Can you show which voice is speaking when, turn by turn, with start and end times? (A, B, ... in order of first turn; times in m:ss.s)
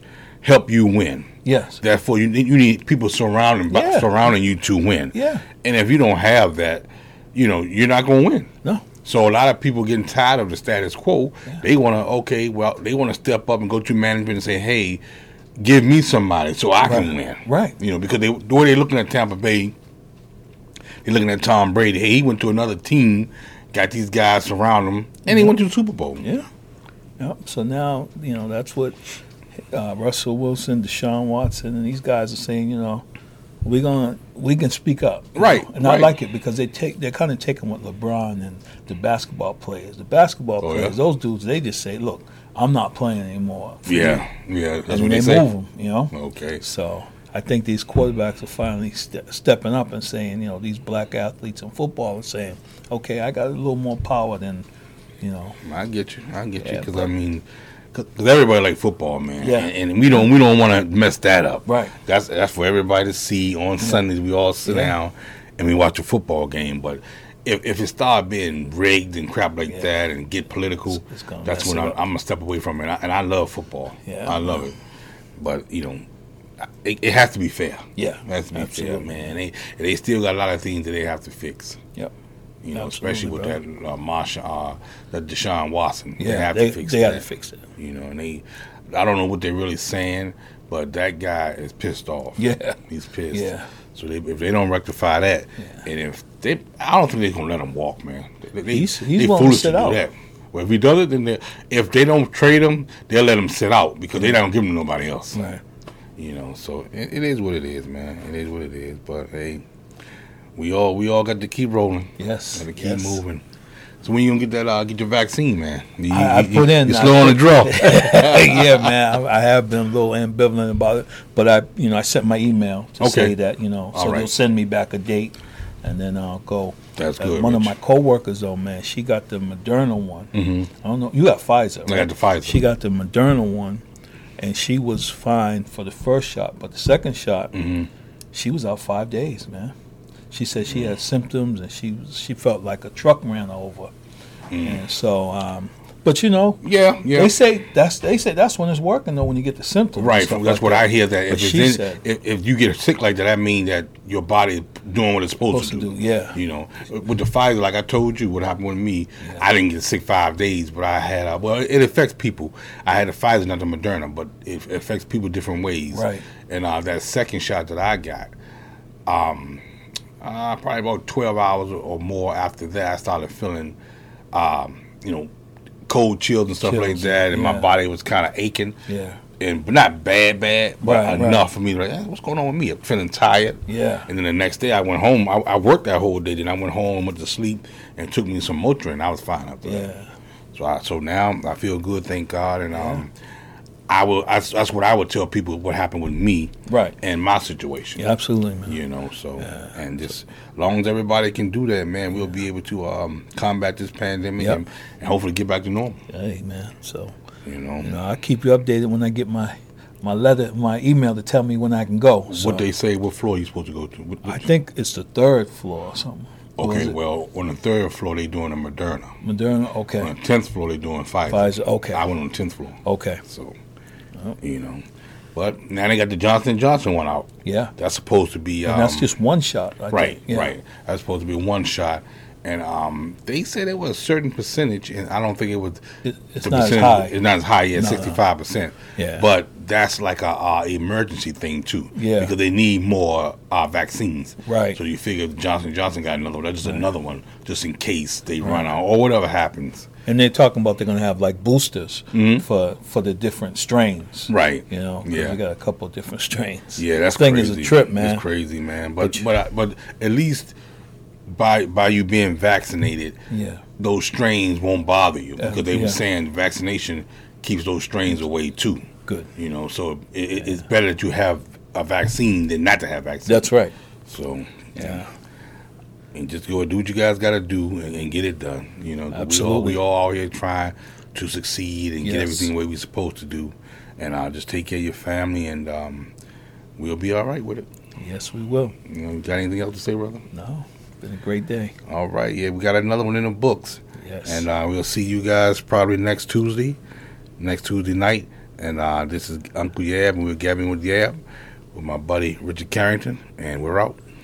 0:00.4-0:08.5 A
0:01.4-0:01.8 B
0:03.7-0:04.3 B
0:05.1-0:05.4 B
0:09.0-0:15.0 A
0:15.6-0:19.7 A
0:16.8-0:17.8 B
0:21.0-0:26.2 A
0:25.3-0:25.5 B
0:26.2-0:26.5 B
0:27.2-0:29.1 B
0:29.7-0:33.0 B
0:33.6-0:44.2 B
0:35.4-0:36.1 A
0:40.6-0:40.9 A
0:43.8-0:45.5 A
0:44.9-0:54.7 B
0:46.1-0:46.6 A
0:55.2-0:55.6 B
0:55.6-1:14.8 A
0:56.6-0:57.1 B
0:59.4-1:00.3 B
1:01.6-1:01.9 B
1:03.8-1:04.0 B
1:04.6-1:04.9 B
1:10.9-1:12.0 B
1:14.0-1:14.6 B
1:15.4-1:16.0 A
1:16.8-1:21.8 A
1:18.0-1:19.3 B
1:22.6-1:27.2 A
1:22.7-1:23.6 B
1:26.2-1:27.7 B
1:27.8-1:45.4 A
1:32.4-1:32.8 B
1:33.3-1:33.7 B
1:38.7-1:40.0 B
1:45.3-1:45.6 B
1:46.2-1:49.6 A
1:50.6-1:53.4 A
1:52.2-1:53.2 B
1:54.0-1:58.9 A
1:56.1-2:13.8 B
2:03.0-2:03.3 A
2:03.9-2:04.3 A
2:07.0-2:07.7 A
2:10.3-2:10.7 A
2:11.9-2:12.7 A
2:14.4-2:17.5 B
2:17.5-2:17.9 A
2:18.3-2:19.7 B
2:20.3-2:23.9 B
2:24.5-2:24.8 A
2:24.6-2:32.0 B
2:26.6-2:27.3 A
2:30.0-2:48.3 A
2:35.5-2:36.4 B
2:45.9-2:46.2 B
2:49.1-2:49.6 A
2:50.2-2:53.8 A
2:54.3-2:55.3 A
2:55.9-2:58.8 A
2:56.6-2:57.7 B
2:58.9-2:59.2 B
2:59.4-3:09.9 A
3:00.8-3:01.5 B
3:03.7-3:04.1 B
3:09.6-3:10.1 B
3:10.5-3:13.1 A
3:12.7-3:13.0 B
3:13.9-3:18.1 A
3:16.7-3:17.0 B
3:18.0-3:18.8 B
3:18.7-3:26.0 A
3:19.4-3:19.7 B
3:26.1-3:27.1 B
3:27.4-3:27.9 A
3:27.8-3:32.7 B
3:32.3-3:34.5 A
3:34.2-3:37.0 B
3:36.6-3:39.2 A
3:39.2-3:40.1 B
3:40.0-3:43.6 A
3:41.3-3:42.0 B
3:42.8-3:43.2 B
3:44.4-3:44.8 A
3:45.3-3:49.1 A
3:47.4-3:47.7 B
3:48.6-3:50.5 B
3:49.9-3:55.8 A
3:56.0-3:57.1 B
3:56.4-4:09.9 A
3:57.7-3:58.2 B
3:59.0-3:59.2 B
4:01.9-4:02.3 B
4:04.4-4:04.8 B
4:08.4-4:08.7 B
4:10.0-4:18.2 B
4:12.1-4:12.4 A
4:14.3-4:15.4 A
4:16.8-4:20.5 A
4:21.3-4:23.2 A
4:23.3-4:23.6 B
4:23.8-4:33.5 A
4:25.4-4:26.0 B
4:33.2-4:33.7 B
4:34.0-4:35.0 A
4:34.7-4:35.1 B
4:36.1-4:46.1 A
4:39.1-4:39.8 B
4:42.0-4:42.5 B
4:46.8-4:47.7 A
4:48.0-4:48.8 B
4:48.8-4:50.2 A
4:50.3-4:51.7 B
4:51.8-4:56.8 A
4:54.0-4:54.4 B
4:57.4-5:01.2 A
5:01.7-5:04.0 A